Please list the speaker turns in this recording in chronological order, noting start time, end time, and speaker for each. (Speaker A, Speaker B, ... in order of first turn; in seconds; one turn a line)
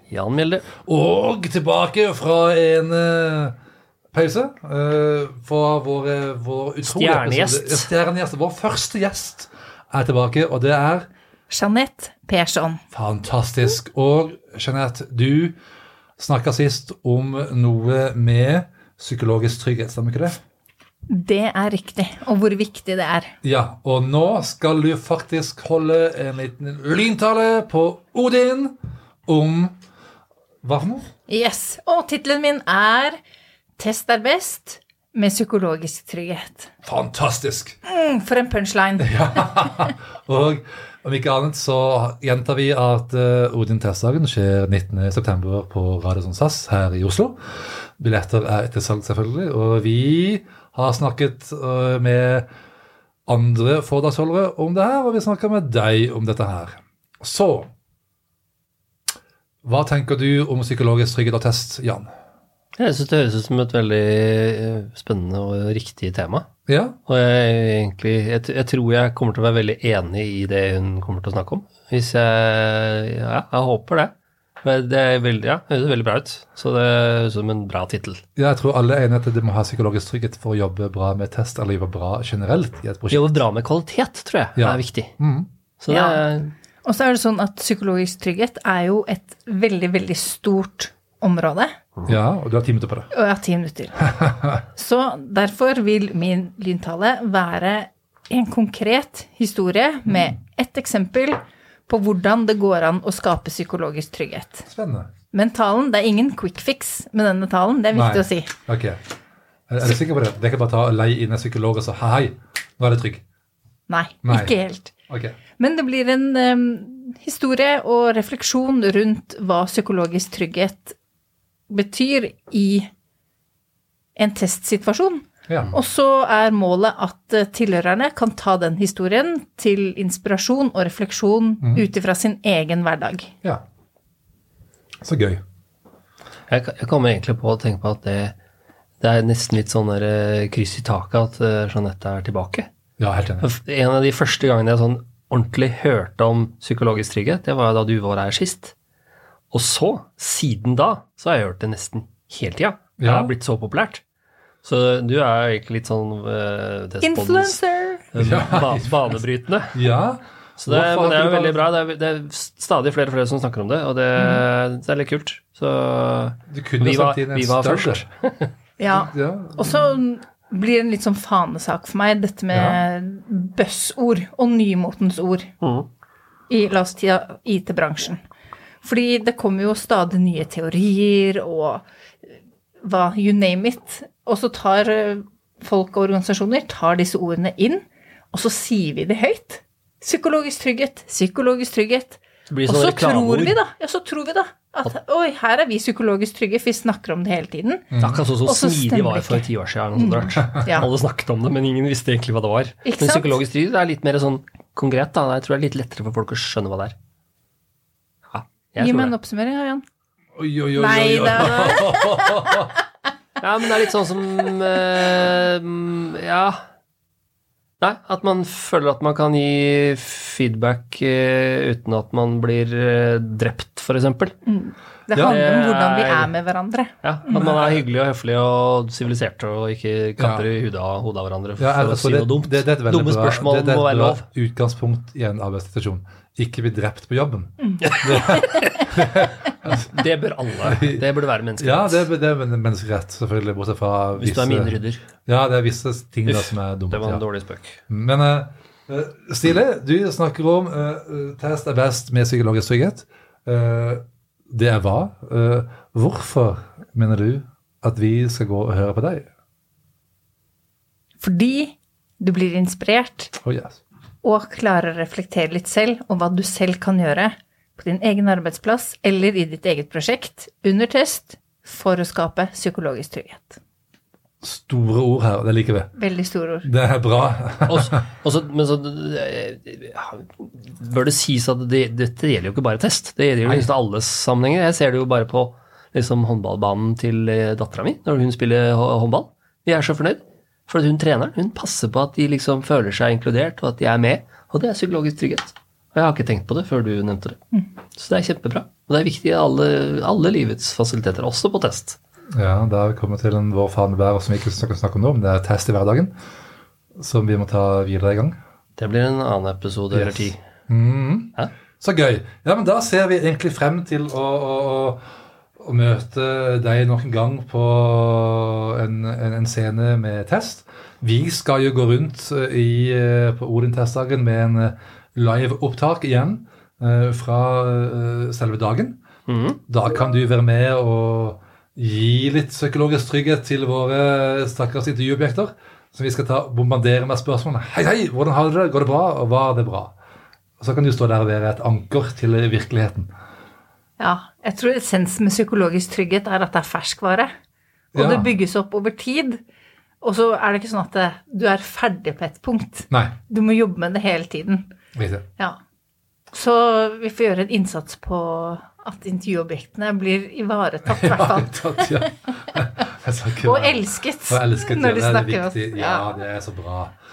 Speaker A: 0.1-0.7
Speaker B: 0.8-3.5
Speaker B: 4.1-11.1
Speaker A: 6.8-7.9
Speaker C: 11.5-12.8
Speaker B: 12.9-15.6
Speaker B: 16.2-20.4
Speaker C: 21.1-23.3
Speaker B: 23.4-28.8
Speaker B: 29.3-29.8
Speaker B: 30.6-31.1
Speaker C: 31.3-33.2
Speaker C: 33.8-36.7
Speaker B: 36.8-37.8
Speaker C: 37.9-39.9
Speaker B: 39.0-47.4
Speaker B: 48.0-52.5
Speaker B: 53.3-57.7
Speaker B: 59.6-62.1
Speaker A: 62.8-66.5
Speaker B: 66.7-67.0
Speaker A: 67.1-78.2
Speaker B: 78.4-83.3
Speaker A: 83.1-85.1
Speaker B: 84.6-85.5
Speaker A: 85.8-86.5
Speaker C: 85.9-86.2
Speaker C: 86.8-91.7
Speaker B: 92.1-93.1
Speaker C: 93.1-104.7
Speaker B: 104.7-105.1
Speaker C: 105.3-108.5
Speaker B: 107.9-109.0
Speaker B: 109.7-113.2
Speaker C: 113.9-114.9
Speaker B: 114.2-114.6
Speaker B: 115.1-115.4
Speaker C: 115.6-121.0
Speaker C: 121.7-122.9
Speaker C: 124.2-133.3
Speaker B: 125.5-125.7
Speaker B: 135.0-135.4
Speaker A: 136.5-138.3
Speaker A: 139.0-142.7
Speaker B: 143.0-143.5
Speaker A: 143.4-148.8
Speaker A: 149.5-154.0
Speaker B: 153.0-153.3
Speaker A: 154.6-157.6
Speaker C: 157.0-158.1
Speaker A: 158.1-159.8
Speaker B: 158.2-159.2
Speaker B: 159.7-161.6
Speaker A: 160.6-168.5
Speaker B: 166.5-168.1
Speaker C: 168.8-175.5
Speaker B: 168.9-170.0
Speaker B: 172.5-172.8
Speaker A: 175.6-175.9
Speaker C: 176.5-178.2
Speaker C: 178.8-181.9
Speaker C: 182.8-197.9
Speaker A: 192.5-193.6
Speaker B: 197.9-198.2
Speaker A: 198.0-206.9
Speaker C: 198.4-200.9
Speaker C: 202.8-203.4
Speaker A: 208.3-209.1
Speaker C: 208.8-209.8
Speaker B: 210.4-212.7
Speaker C: 210.8-212.7
Speaker A: 213.4-216.6
Speaker A: 217.8-224.4
Speaker C: 224.4-227.5
Speaker B: 225.1-225.4
Speaker A: 225.3-226.3
Speaker A: 227.0-234.2
Speaker B: 227.3-227.8
Speaker B: 230.2-230.5
Speaker B: 231.6-239.9
Speaker A: 238.1-238.5
Speaker A: 239.7-242.1
Speaker B: 240.7-241.1
Speaker B: 241.6-247.2
Speaker A: 244.2-245.1
Speaker A: 246.3-247.8
Speaker B: 247.9-259.3
Speaker C: 261.2-263.3
Speaker B: 263.4-263.8
Speaker C: 264.2-273.6
Speaker B: 274.4-275.9
Speaker C: 275.9-276.7
Speaker B: 276.6-278.0
Speaker A: 277.7-297.4
Speaker A: 297.9-302.0
Speaker B: 302.3-306.1
Speaker B: 307.0-308.4
Speaker A: 308.8-310.4
Speaker B: 309.9-315.0
Speaker B: 315.6-329.0
Speaker A: 329.3-329.6
Speaker B: 329.7-340.0
Speaker B: 340.6-343.1
Speaker C: 344.0-347.3
Speaker C: 347.9-349.4
Speaker B: 347.9-348.3
Speaker C: 350.0-354.7
Speaker B: 352.9-353.2
Speaker B: 354.9-355.3
Speaker C: 356.3-362.1
Speaker B: 360.9-366.9
Speaker C: 363.4-366.2